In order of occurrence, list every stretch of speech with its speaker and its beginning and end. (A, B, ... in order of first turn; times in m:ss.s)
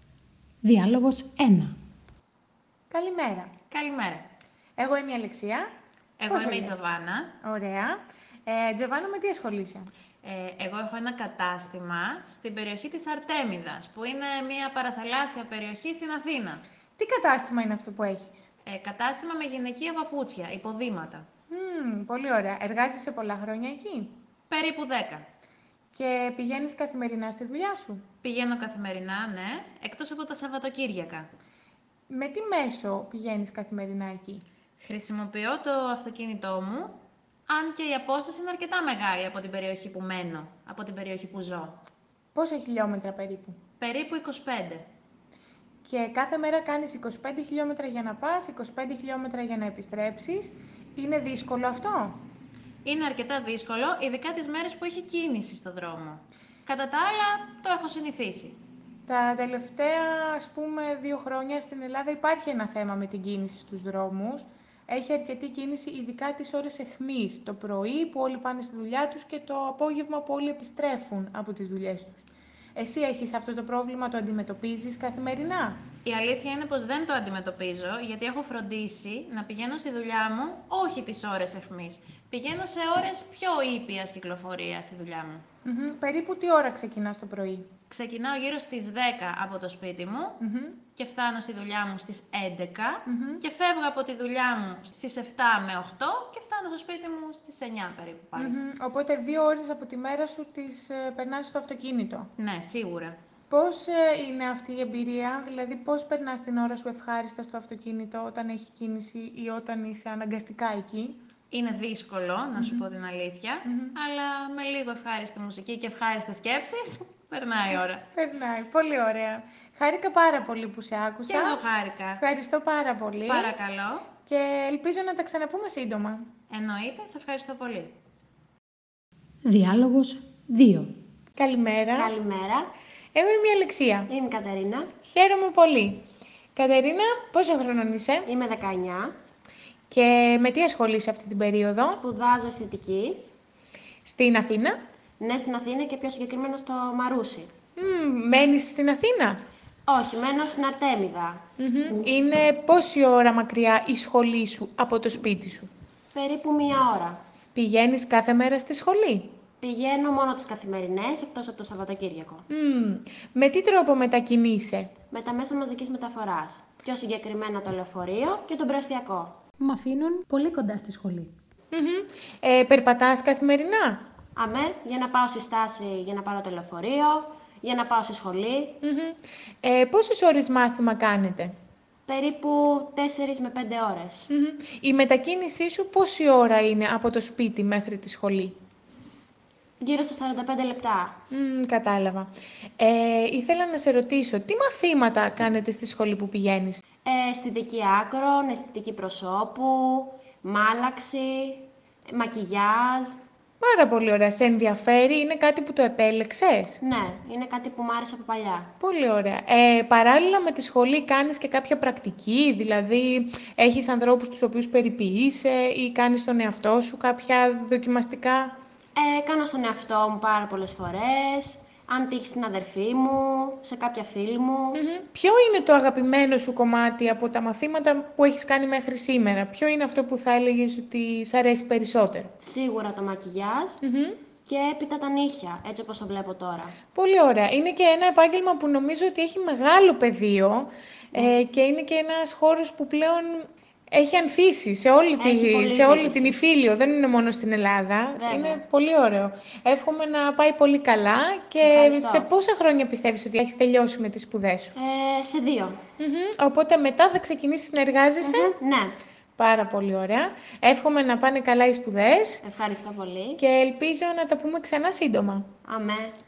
0:00.6-0:01.8 A
0:02.9-0:03.5 B
0:03.7-0:04.3 C
0:04.8-0:05.7 B
0:06.2-0:07.3 C
0:06.3-0:06.7 B
0:07.4-0:09.9 B
0:10.2-0:16.6 C
0:17.0-0:18.5 B
0:18.6-0:21.3 C
0:21.5-0:24.2 B
0:24.5-0:25.3 C
0:25.9-0:28.0 B
0:28.2-0:31.3 C
0:32.1-0:34.4 B
0:34.8-0:41.8 C
0:42.3-0:43.6 B
0:43.8-0:44.9 C
0:45.8-0:52.2 B
0:52.8-0:58.6 C
0:59.0-1:15.8 B
1:16.0-1:25.4 C
1:25.6-1:27.7 B
1:27.9-1:30.4 C
1:30.4-1:30.8 B
1:30.9-1:38.6 C
1:33.1-1:33.4 B
1:38.4-1:42.3 B
1:42.4-1:43.2 C
1:43.5-1:51.2 B
1:51.5-1:58.0 C
1:52.6-1:52.8 B
1:53.6-1:54.0 B
1:58.1-2:01.6 B
2:01.3-2:02.2 C
2:02.2-2:03.5 B
2:03.3-2:04.1 C
2:04.2-2:06.3 B
2:06.5-2:08.0 C
2:09.4-2:10.9 A
2:11.4-2:12.1 B
2:12.0-2:12.7 D
2:13.1-2:14.1 B
2:14.1-2:14.9 D
2:15.0-2:16.0 B
2:16.5-2:18.3 B
2:18.2-2:19.1 D
2:19.9-2:22.0 B
2:21.8-2:23.2 D
2:24.0-2:24.8 B
2:25.2-2:27.5 D
2:27.8-2:29.4 B
2:29.9-2:31.4 D
2:31.6-2:35.7 B
2:36.1-2:37.2 D
2:37.5-2:39.4 B
2:39.6-2:42.4 D
2:42.5-2:44.9 B
2:45.1-2:49.4 D
2:49.6-2:51.3 A
2:51.7-2:54.1 B
2:54.4-2:58.8 D
2:58.8-3:01.5 B
3:02.0-3:04.3 D
3:04.3-3:08.6 B
3:09.8-3:11.2 D
3:11.3-3:16.8 B
3:17.0-3:23.2 D
3:23.6-3:26.8 B
3:26.8-3:28.7 D
3:28.8-3:38.6 B
3:39.0-3:44.8 D
3:44.7-3:52.3 B
3:52.4-3:53.8 D
3:53.8-3:54.2 B
3:54.4-3:56.8 D
3:56.9-4:14.7 B
4:05.2-4:06.4 D
4:08.2-4:08.6 D
4:11.6-4:12.3 D
4:14.7-4:15.8 D
4:16.0-4:18.5 B
4:18.2-4:18.9 D
4:19.4-4:22.4 B
4:22.4-4:23.4 D
4:23.4-4:25.5 B
4:25.6-4:26.2 D